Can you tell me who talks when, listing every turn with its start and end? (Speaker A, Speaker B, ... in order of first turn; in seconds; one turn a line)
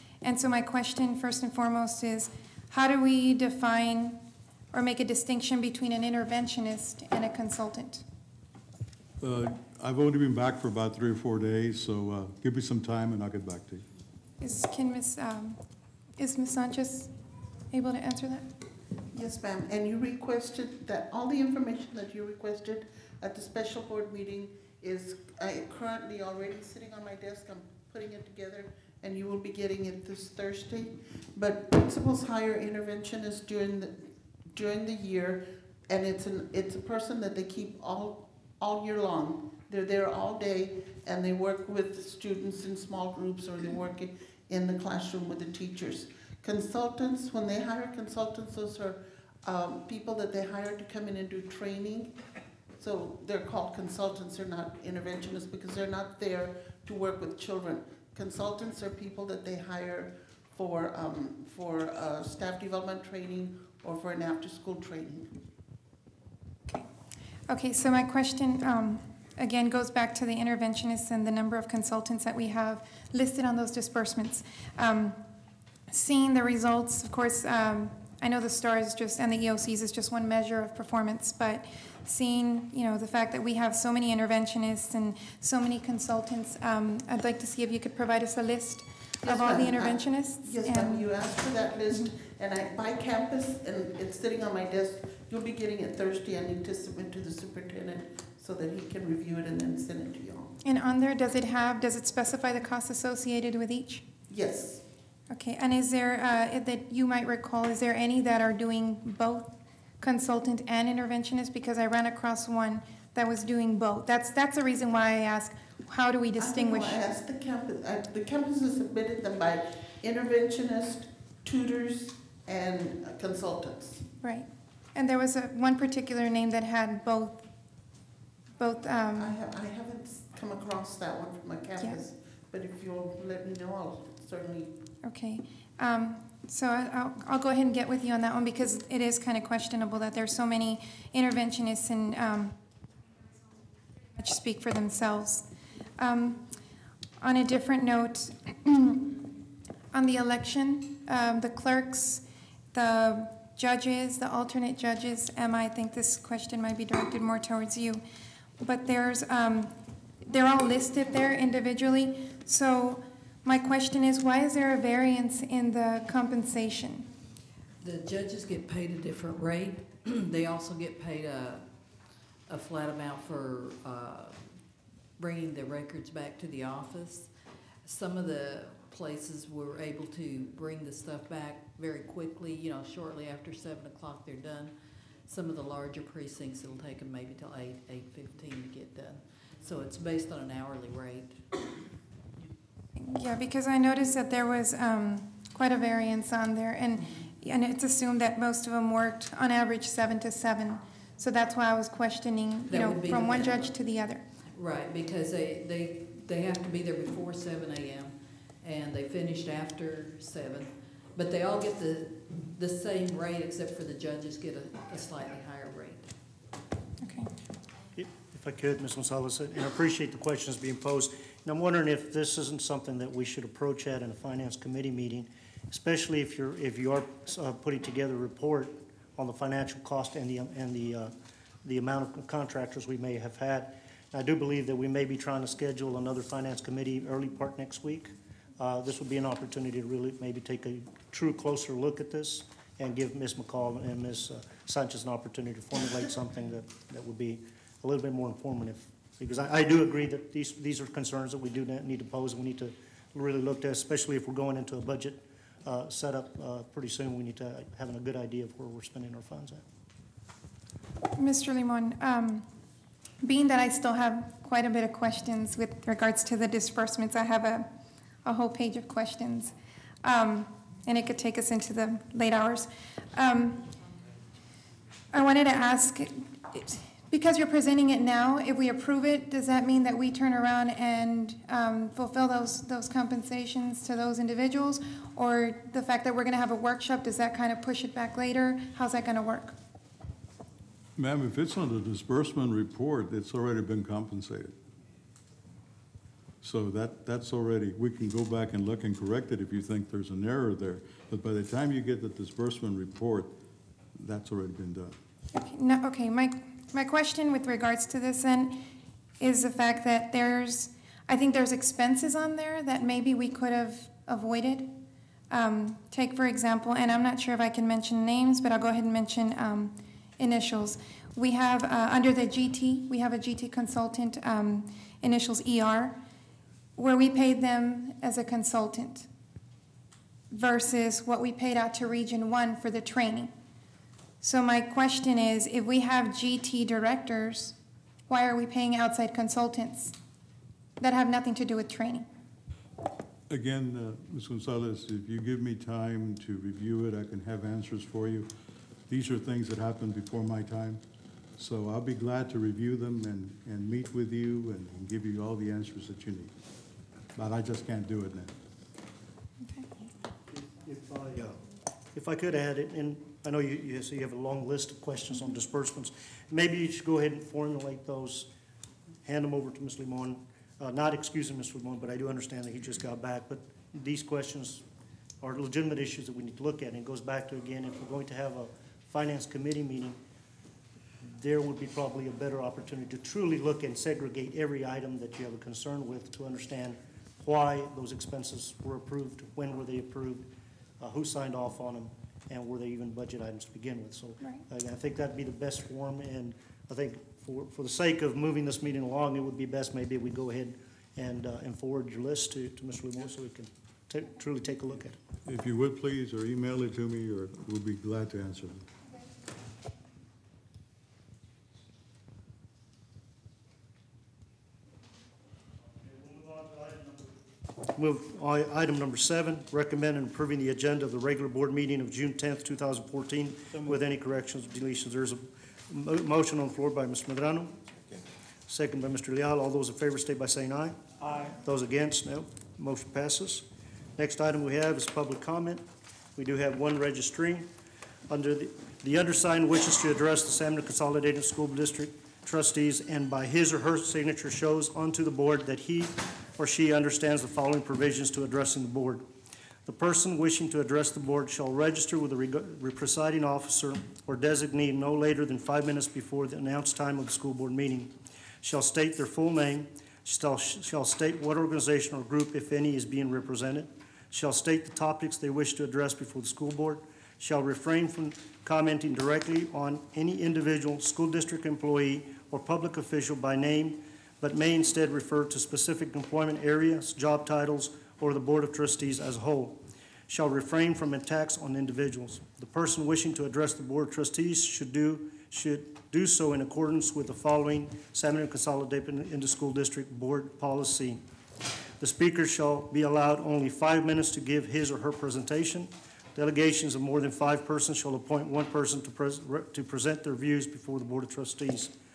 Speaker A: 0.2-8.0
Speaker B: 9.2-13.8
Speaker A: 14.4-15.6
Speaker A: 16.2-17.1
Speaker A: 17.7-18.5
Speaker C: 19.1-52.2
Speaker C: 52.8-65.4
Speaker A: 67.5-75.2
Speaker A: 75.9-91.1
Speaker C: 89.2-100.6
Speaker A: 100.6-104.0
Speaker C: 104.3-104.8
Speaker A: 105.3-117.0
Speaker C: 116.4-124.1
Speaker A: 124.2-127.5
Speaker A: 128.6-129.4
Speaker C: 129.1-134.8
Speaker A: 135.0-142.6
Speaker A: 144.1-146.5
Speaker A: 147.2-149.3
Speaker A: 149.9-158.0
Speaker A: 158.6-159.7
Speaker A: 160.2-167.1
Speaker D: 167.8-171.6
Speaker D: 172.5-174.4
Speaker D: 175.2-177.3
Speaker D: 177.8-184.7
Speaker D: 185.3-191.4
Speaker A: 192.9-204.2
Speaker D: 202.7-203.8
Speaker D: 204.5-216.1
Speaker A: 217.0-217.3
Speaker E: 217.9-231.1
Speaker E: 231.6-259.6
Speaker A: 261.1-262.4
Speaker A: 263.2-267.7
Speaker A: 268.2-273.7
Speaker A: 275.1-289.6
Speaker B: 290.9-294.5
Speaker B: 296.4-303.4
Speaker B: 303.9-305.0
Speaker A: 305.3-308.6
Speaker A: 309.2-314.8
Speaker A: 315.3-326.0
Speaker A: 326.8-329.1
Speaker A: 330.3-333.3
Speaker A: 334.2-337.6
Speaker A: 338.1-339.9
Speaker A: 340.8-342.1
Speaker B: 343.3-348.3
Speaker B: 348.9-350.8
Speaker B: 351.4-356.3
Speaker B: 357.1-358.3
Speaker A: 359.4-359.8
Speaker E: 360.3-361.4
Speaker E: 361.9-368.3
Speaker E: 369.0-374.6
Speaker E: 375.2-380.0
Speaker E: 381.1-405.0
Speaker B: 405.2-408.6
Speaker E: 415.9-417.0
Speaker E: 417.8-427.6
Speaker E: 428.5-435.6
Speaker E: 436.1-437.5
Speaker E: 438.1-449.1
Speaker E: 449.6-491.0
Speaker E: 491.8-501.7